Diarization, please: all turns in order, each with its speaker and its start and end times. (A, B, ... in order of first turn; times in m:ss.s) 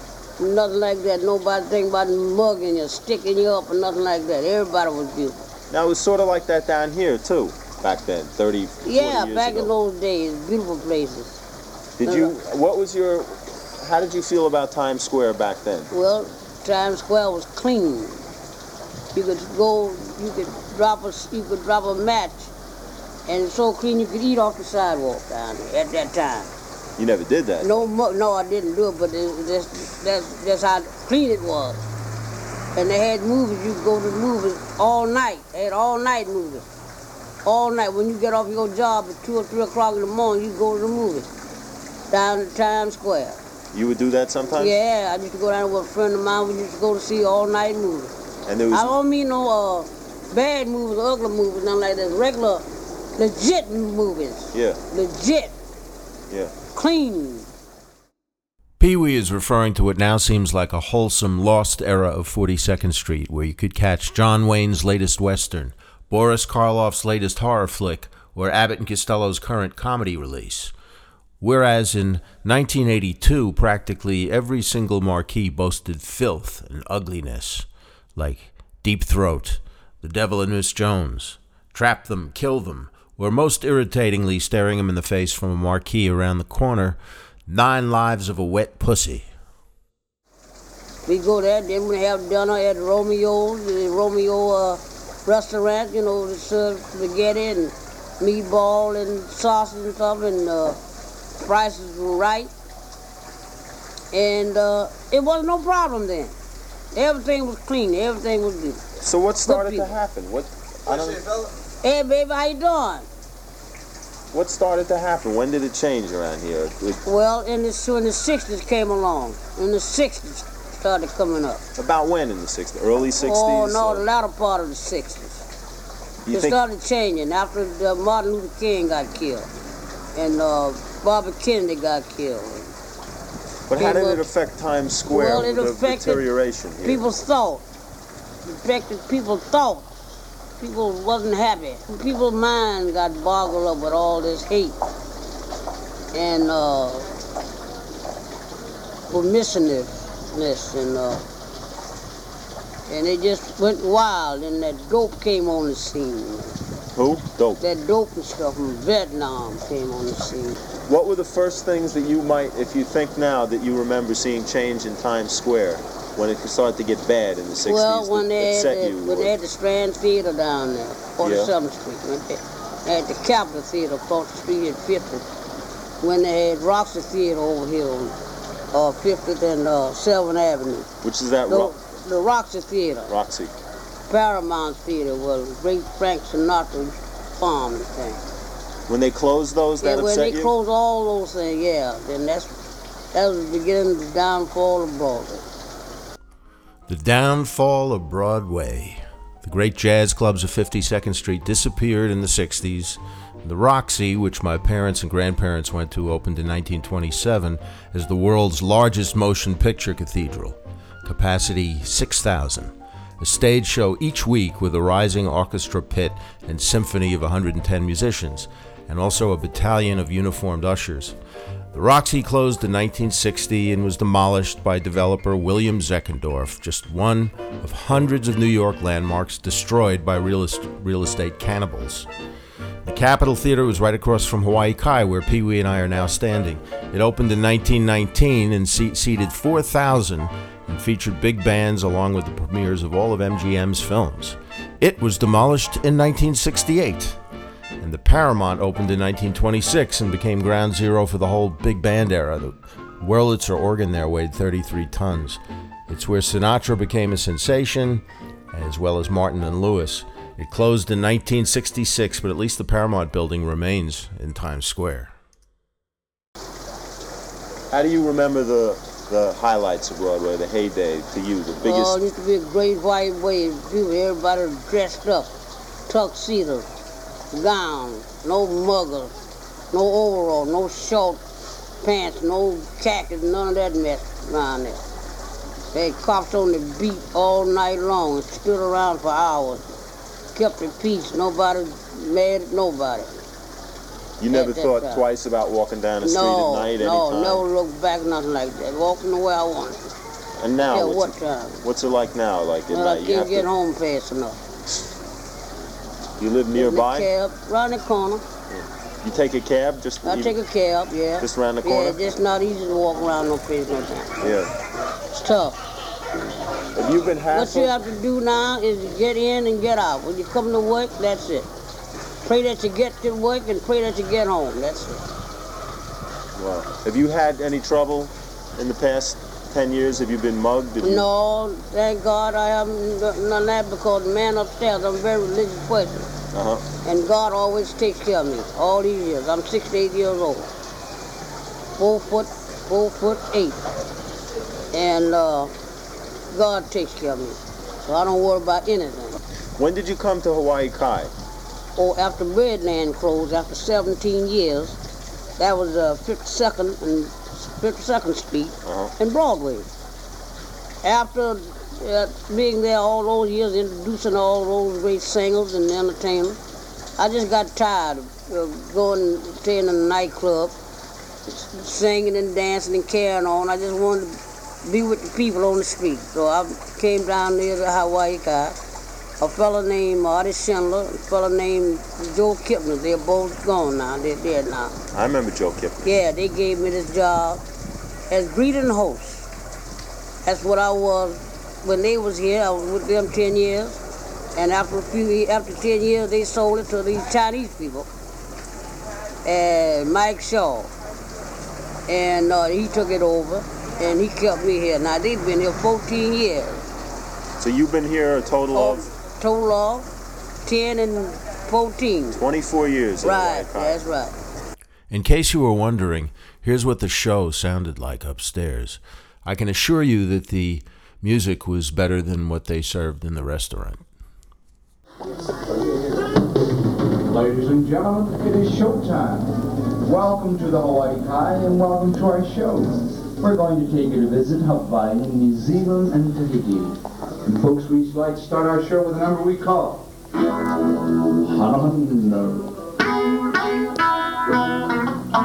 0:00.4-0:05.4 A
0:05.7-0:09.7 B
0:08.8-0:11.4 A
0:12.0-0:15.9 B
0:12.0-0:12.3 A
0:15.9-0:18.2 A
0:19.1-0:22.5 A
0:23.3-0:26.5 A
0:27.0-0:27.8 B
0:27.6-0:31.8 A
0:32.7-0:36.6 A
0:37.4-0:41.3 A
0:42.1-0:43.4 A
0:43.7-0:44.7 B
0:44.6-0:48.1 A
0:48.5-0:48.9 B
0:48.7-0:52.6 A
0:53.2-0:55.5 A
0:54.5-0:54.8 B
0:56.7-0:57.5 A
0:58.8-1:10.7 C
1:11.4-1:29.3 C
1:31.0-1:40.8 A
1:41.4-1:42.5 A
1:44.1-1:46.3 A
1:46.9-1:48.8 A
1:49.0-1:51.3 B
1:49.4-1:49.9 A
1:51.8-1:53.0 A
1:54.3-1:57.0 B
1:57.0-2:01.6 A
2:01.8-2:04.0 B
2:03.2-2:05.4 A
2:06.2-2:06.6 B
2:06.3-2:09.5 A
2:10.1-2:12.7 A
2:13.7-2:17.0 B
2:13.7-2:14.2 A
2:15.1-2:16.2 A
2:16.8-2:17.6 A
2:18.5-2:20.0 A
2:20.6-2:24.8 A
2:26.1-2:27.1 A
2:29.1-2:31.2 A
2:32.9-2:36.5 A
2:36.9-2:37.6 B
2:37.6-2:40.6 A
2:40.9-2:49.3 B
2:47.6-2:55.2 A
2:51.2-2:51.5 B
2:56.0-2:58.2 A
2:58.7-3:00.9 A
3:01.0-3:01.7 B
3:01.5-3:03.1 A
3:03.1-3:03.5 B
3:04.1-3:08.2 A
3:08.9-3:10.5 B
3:09.8-3:12.5 A
3:13.1-3:15.4 A
3:16.9-3:41.2 C
3:41.7-3:52.1 C
3:52.8-4:07.2 C
4:07.8-4:25.1 C
4:27.7-4:32.0 B
4:31.6-4:35.3 A
4:35.9-4:36.7 A
4:37.3-4:39.1 A
4:39.7-4:41.2 A
4:41.8-4:44.8 A
4:45.7-4:49.7 A
4:50.3-4:53.2 A
4:54.2-4:57.4 B
4:54.3-4:55.0 A
4:56.0-4:59.9 A
5:00.4-5:03.5 B
5:00.7-5:01.6 A
5:02.7-5:04.4 A
5:06.2-5:07.1 B
5:06.5-5:08.2 A
5:08.5-5:10.4 B
5:10.0-5:14.3 A
5:11.2-5:12.0 B
5:14.2-5:14.5 B
5:15.1-5:15.6 A
5:16.7-5:17.7 B
5:17.3-5:21.5 A
5:22.2-5:25.0 A
5:26.4-5:31.0 B
5:30.8-5:36.1 A
5:36.3-5:36.6 B
5:36.8-5:40.5 A
5:41.8-5:43.6 A
5:44.7-5:45.5 A
5:46.3-5:49.2 A
5:49.6-5:51.1 B
5:51.8-5:54.8 A
5:55.4-5:59.6 A
5:58.6-5:58.9 B
6:00.8-6:06.4 A
6:07.0-6:10.5 A
6:11.3-6:18.6 A
6:19.2-6:24.7 A
6:24.9-6:25.8 B
6:25.8-6:27.4 A
6:28.1-6:29.3 A
6:30.2-6:33.8 A
6:34.4-6:37.9 A
6:39.2-6:40.7 A
6:41.9-6:46.6 A
6:47.4-6:48.8 B
6:48.5-6:49.9 A
6:50.4-6:52.2 A
6:52.1-6:53.8 B
6:53.0-6:54.1 A
6:54.9-7:03.8 C
7:07.1-7:19.8 D
7:21.2-7:22.5 D